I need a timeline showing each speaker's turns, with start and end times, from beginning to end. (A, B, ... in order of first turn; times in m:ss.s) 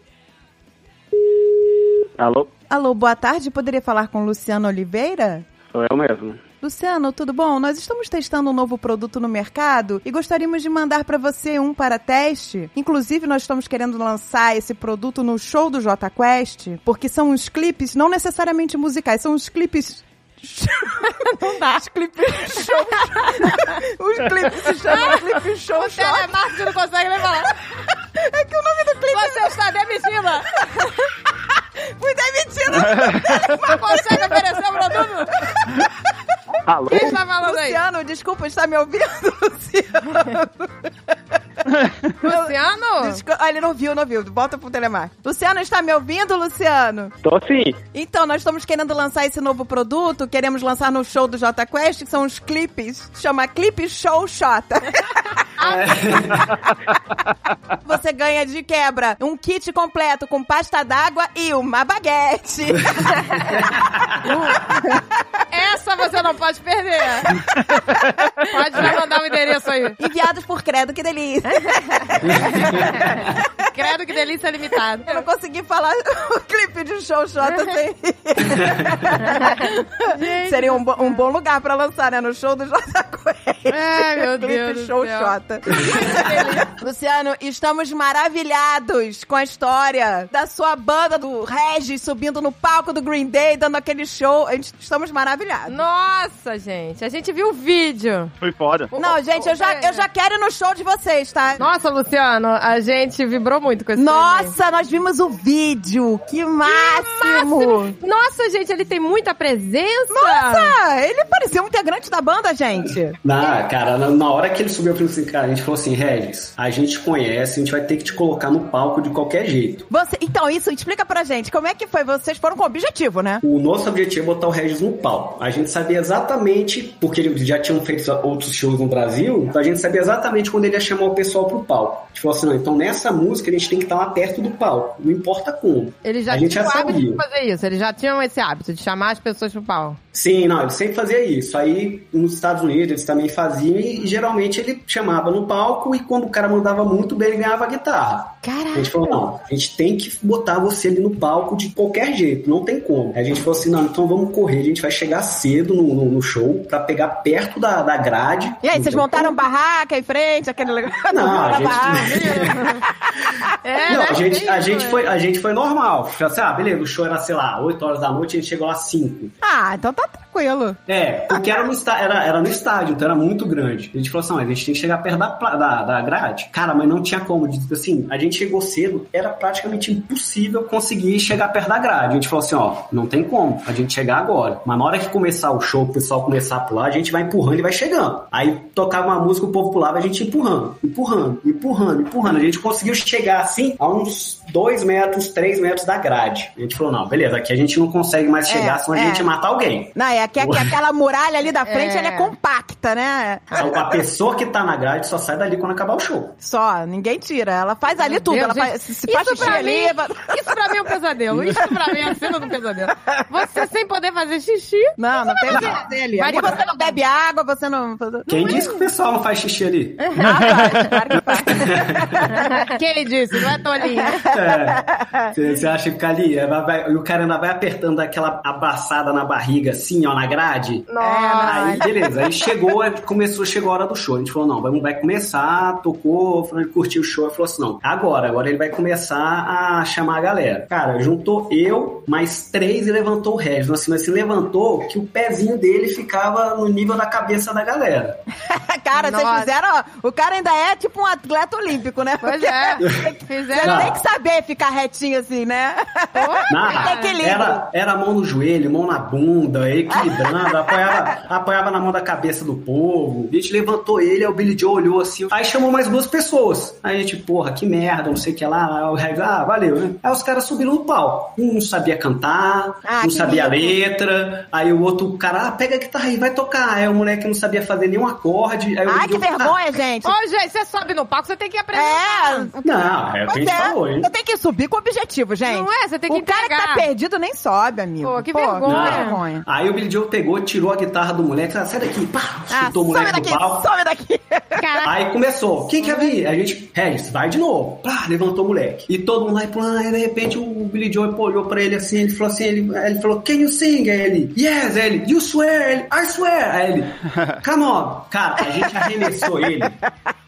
0:02.2-0:02.5 A
0:02.7-0:05.5 B
0:05.7-0:06.4 A
0:06.6-0:26.3 B
0:21.2-0:21.5 C
0:22.7-0:23.8 C
0:24.9-0:27.6 C
0:27.5-0:29.6 B
0:29.1-0:30.8 C
0:30.7-0:34.5 B
0:32.8-0:33.5 D
0:33.5-0:35.5 C
0:35.3-0:35.9 B
0:36.7-0:37.1 A
0:36.9-0:37.8 C
0:36.9-0:41.6 B
0:41.7-0:42.0 D
0:42.2-0:43.2 C
0:42.2-0:47.1 B
0:47.2-0:47.8 A
0:47.9-0:55.3 B
0:55.6-0:56.2 C
0:55.6-0:56.6 E
0:57.8-1:03.2 B
1:03.5-1:04.2 E
1:04.2-1:04.8 C
1:04.7-1:05.1 B
1:05.5-1:07.4 C
1:08.4-1:10.0 C
1:10.0-1:13.4 B
1:11.6-1:15.2 C
1:12.3-1:12.7 E
1:15.0-1:35.8 B
1:19.2-1:21.2 C
1:23.7-1:26.7 C
1:35.7-1:38.3 C
1:38.4-1:38.9 D
1:38.9-1:40.0 C
1:39.0-1:41.6 B
1:41.6-1:44.5 C
1:44.0-1:48.0 B
1:46.6-1:50.7 C
1:50.1-1:53.2 B
1:53.2-1:59.9 E
1:59.9-2:03.4 B
2:03.4-2:17.2 E
2:16.0-2:20.0 C
2:20.1-2:39.4 E
2:28.4-2:29.2 C
2:38.6-2:42.9 B
2:41.1-2:42.7 E
2:41.6-2:42.8 C
2:43.5-2:44.0 B
2:43.6-2:45.1 C
2:43.9-2:49.3 E
2:49.4-2:50.8 B
2:50.9-3:20.7 E
2:51.3-2:51.6 B
3:18.5-3:19.3 B
3:20.0-3:23.8 B
3:21.6-3:22.3 C
3:23.6-3:26.4 E
3:26.4-3:30.8 B
3:28.0-3:37.0 C
3:31.5-3:32.1 B
3:35.0-3:38.7 B
3:38.3-3:40.2 E
3:40.2-3:42.6 B
3:40.2-3:40.8 D
3:41.5-3:42.3 E
3:42.3-3:44.3 C
3:44.0-3:45.3 B
3:44.3-3:50.9 E
3:50.9-3:51.8 C
3:51.0-3:52.4 B
3:51.4-4:08.2 E
4:08.4-4:17.7 B
4:08.9-4:09.5 C
4:12.2-4:13.9 C
4:13.6-4:14.0 E
4:16.2-4:17.2 C
4:16.5-4:39.6 E
4:19.9-4:21.1 B
4:32.9-4:33.8 B
4:38.9-4:40.2 B
4:40.0-4:42.5 C
4:41.7-4:49.4 B
4:42.6-4:44.1 E
4:45.4-4:46.9 C
4:48.0-4:49.2 C
4:48.6-4:53.7 E
4:52.5-4:54.8 B
4:54.6-4:55.0 C
4:54.8-5:09.8 E
4:55.8-4:56.1 C